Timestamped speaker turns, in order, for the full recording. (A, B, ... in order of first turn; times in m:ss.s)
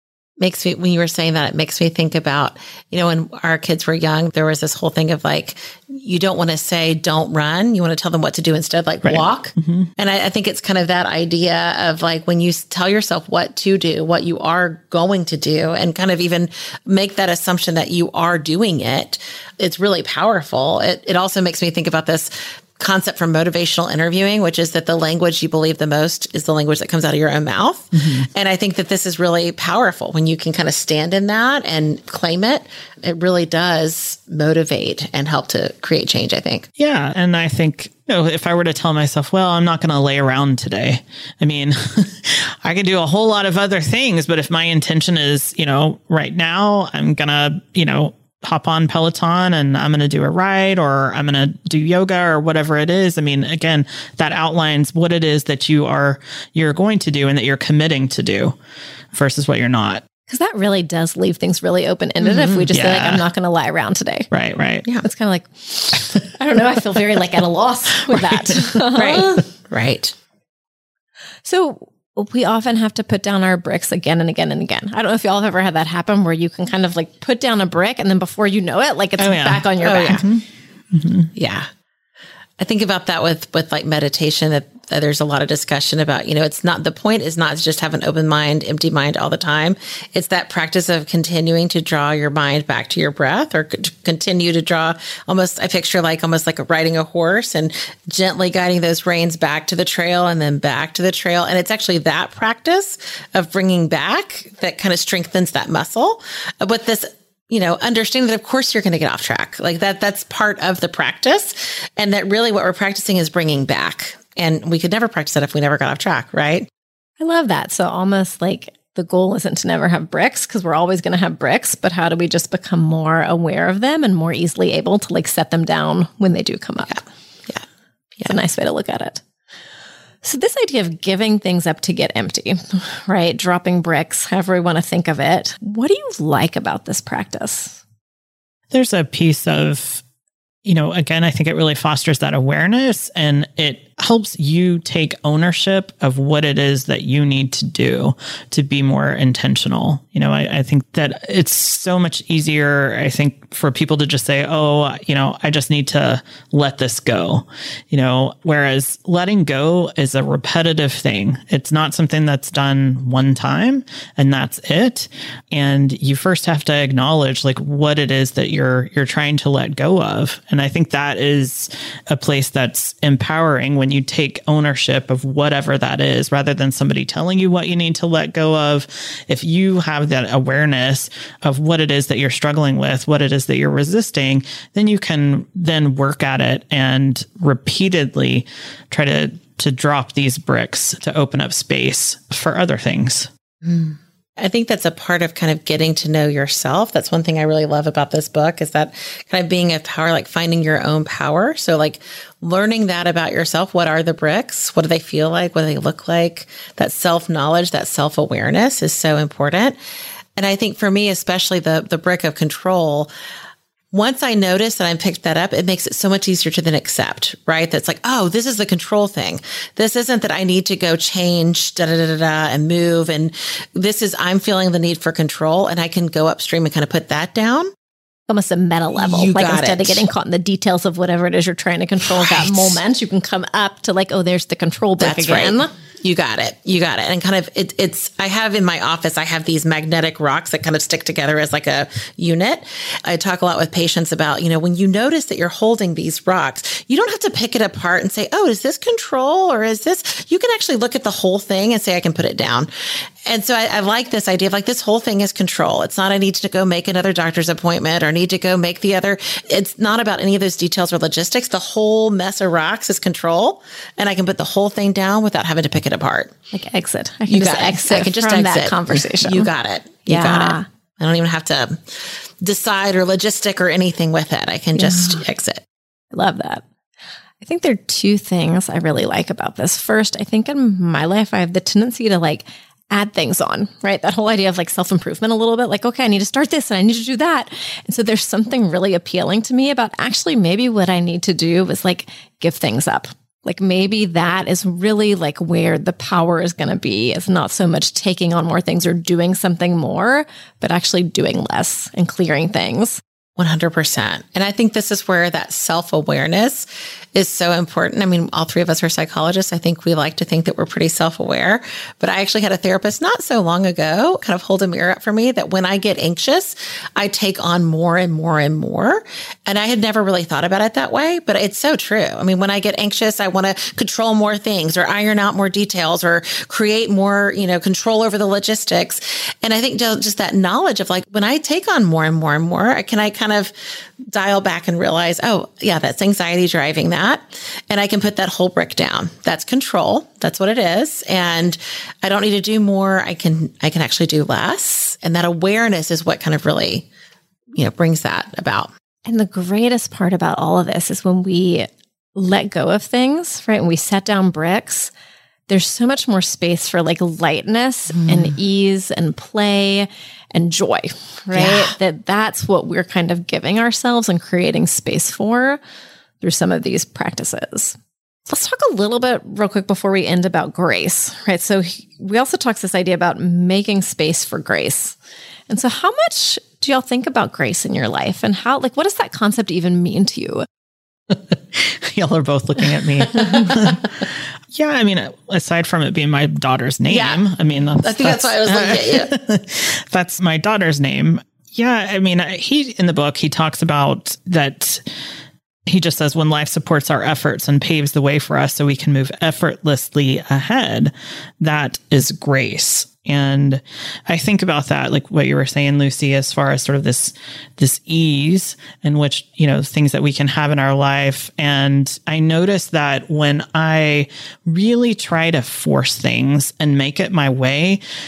0:00.4-0:36.7 A
0:09.0-0:09.9 B
0:27.9-0:28.3 B
0:36.8-0:58.6 B
0:59.1-1:00.0 B
1:00.3-1:04.3 C
1:02.2-1:02.7 A
1:02.7-1:03.2 B
1:04.3-1:04.9 B
1:05.0-1:09.4 C
1:08.2-1:08.8 B
1:08.9-1:10.1 A
1:11.4-1:20.2 C
1:19.2-1:21.3 B
1:19.8-1:20.2 A
1:21.4-1:21.7 A
1:22.6-1:56.7 A
1:57.2-2:07.0 C
2:08.2-2:09.2 C
2:10.2-2:17.8 C
2:18.7-2:20.0 B
2:20.6-3:13.3 B
3:13.6-3:29.8 A
3:30.4-3:33.1 A
3:33.9-3:47.7 A
3:48.3-3:55.7 C
3:49.0-3:50.0 A
3:52.0-3:52.8 A
3:55.0-4:12.7 A
4:13.2-4:26.3 A
4:26.5-4:29.5 C
4:27.3-4:35.6 A
4:30.1-4:30.6 C
4:34.8-4:35.2 C
4:36.1-4:36.6 C
4:37.4-5:03.0 C
5:03.4-5:46.9 A
5:47.6-5:48.7 A
5:49.1-5:54.9 C
5:55.5-6:05.6 C
5:57.9-5:58.4 A
6:01.3-6:01.7 A
6:06.2-6:07.8 C
6:08.3-6:15.0 C
6:15.5-6:20.4 C
6:21.1-6:34.8 B
6:26.9-6:27.2 A
6:27.8-6:29.1 A
6:35.6-6:57.8 B